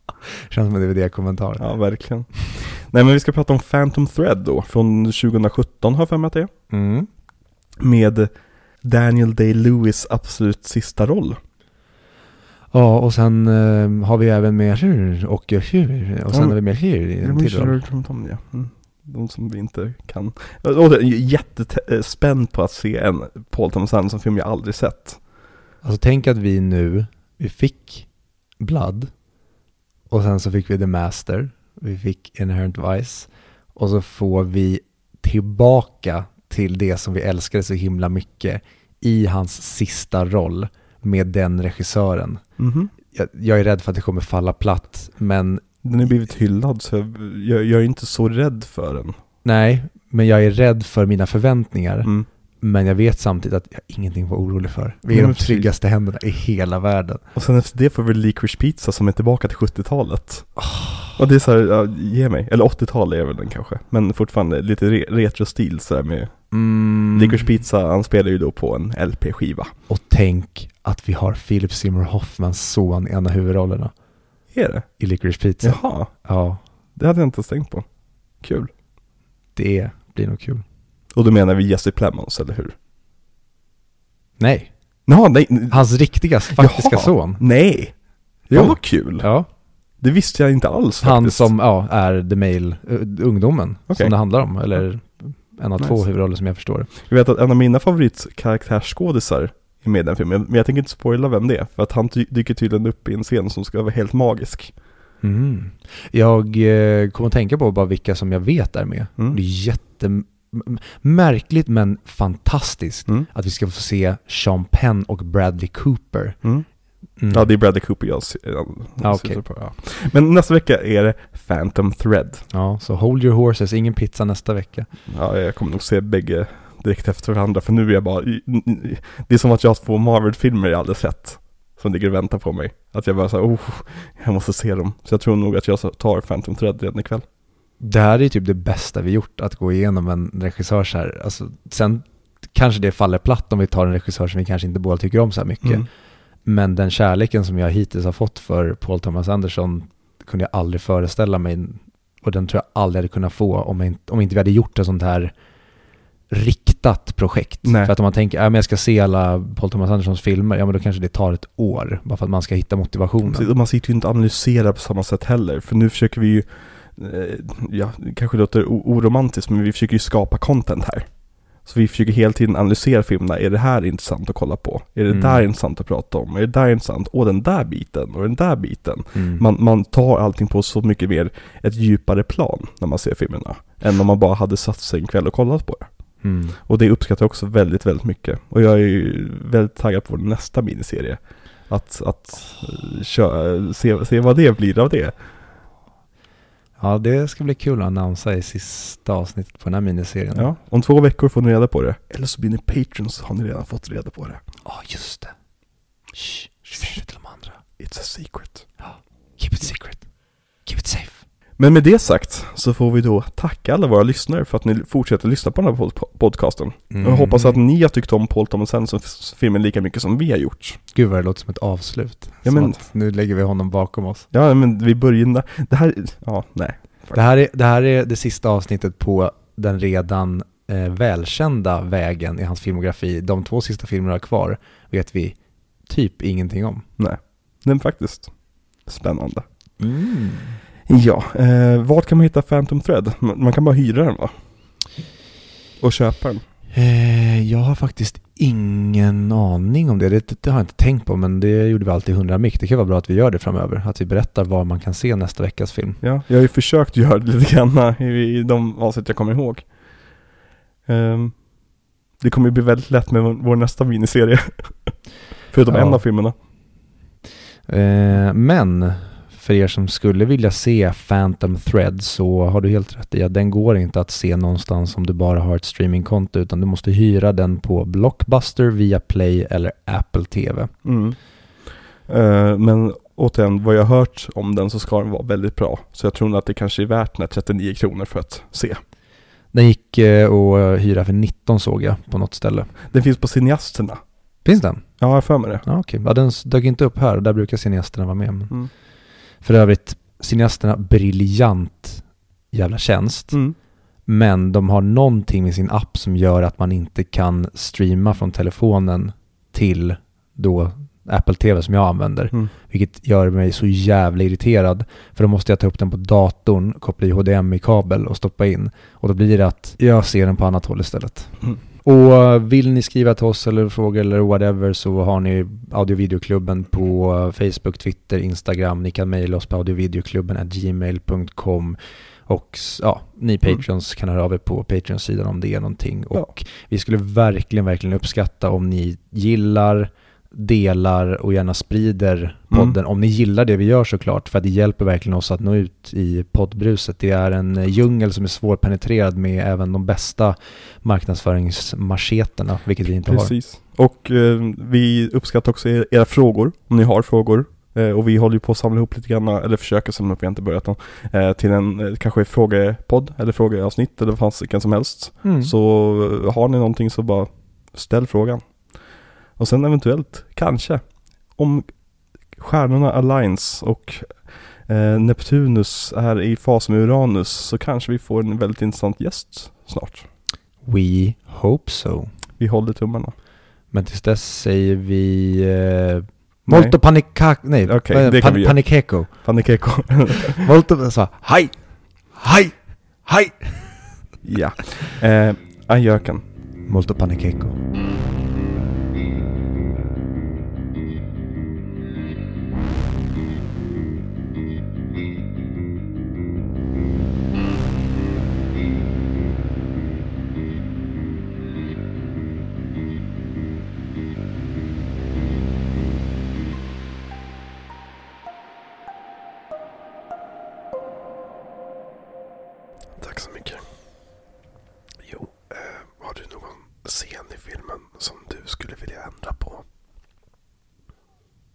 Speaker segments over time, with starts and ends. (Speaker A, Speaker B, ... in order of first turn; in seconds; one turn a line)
Speaker A: 0.5-1.7
Speaker B: 1.6-6.5
Speaker A: 6.7-7.1
Speaker B: 7.8-11.4
Speaker A: 12.7-17.8
Speaker B: 16.3-25.2
Speaker A: 25.8-29.1
Speaker A: 30.1-45.8
Speaker B: 42.6-42.9
Speaker B: 45.8-49.2
Speaker A: 49.4-57.2
Speaker B: 55.1-55.7
Speaker B: 57.3-66.6
Speaker A: 60.6-61.1
Speaker A: 66.5-67.5
Speaker B: 67.1-69.7
Speaker A: 69.9-73.9
Speaker B: 74.5-74.9
Speaker A: 75.0-76.6
Speaker B: 75.6-76.1
Speaker B: 77.0-77.9
Speaker B: 78.4-78.7
Speaker A: 79.5-80.6
Speaker B: 81.1-82.7
Speaker A: 84.4-85.0
Speaker B: 85.0-91.5
Speaker A: 85.7-87.4
Speaker A: 88.5-89.5
Speaker A: 91.0-96.9
Speaker B: 93.9-94.1
Speaker B: 95.8-96.0
Speaker B: 97.0-104.7
Speaker A: 105.2-116.4
Speaker B: 116.4-122.5
Speaker A: 117.2-117.5
Speaker A: 119.0-119.5
Speaker A: 122.5-124.9
Speaker B: 125.1-137.2
Speaker A: 137.8-145.9
Speaker A: 146.4-155.3
Speaker A: 156.3-163.5
Speaker B: 157.6-157.9
Speaker B: 163.2-195.2
Speaker A: 175.1-175.4
Speaker A: 179.1-179.4
Speaker A: 186.2-186.6
Speaker A: 196.8-200.5
Speaker B: 200.3-204.4
Speaker A: 204.6-205.3
Speaker A: 206.1-207.6
Speaker B: 206.7-207.0
Speaker B: 207.8-208.7
Speaker A: 208.8-211.2
Speaker B: 211.6-220.8
Speaker A: 216.9-217.6
Speaker A: 220.9-224.3
Speaker B: 222.4-222.8
Speaker B: 224.3-227.2
Speaker A: 227.1-236.8
Speaker B: 237.0-239.4
Speaker A: 239.8-240.6
Speaker B: 240.8-244.8
Speaker B: 245.8-246.4
Speaker A: 246.7-256.0
Speaker B: 256.0-260.2
Speaker B: 260.9-261.6
Speaker B: 262.2-266.3
Speaker A: 265.7-266.0
Speaker A: 267.7-280.7
Speaker B: 280.8-288.8
Speaker A: 289.5-292.7
Speaker B: 292.9-294.0
Speaker A: 294.4-295.0
Speaker B: 295.0-295.6
Speaker A: 295.6-298.6
Speaker A: 299.4-303.4
Speaker B: 303.3-303.6
Speaker A: 304.1-353.3
Speaker B: 342.5-342.8
Speaker B: 353.0-371.7
Speaker A: 365.2-365.5
Speaker B: 372.3-380.1
Speaker A: 380.6-382.1
Speaker B: 382.4-383.1
Speaker A: 383.7-389.6
Speaker B: 386.5-390.4
Speaker A: 390.3-394.1
Speaker B: 394.2-396.2
Speaker A: 396.7-397.6
Speaker B: 423.0-423.6
Speaker B: 425.1-429.6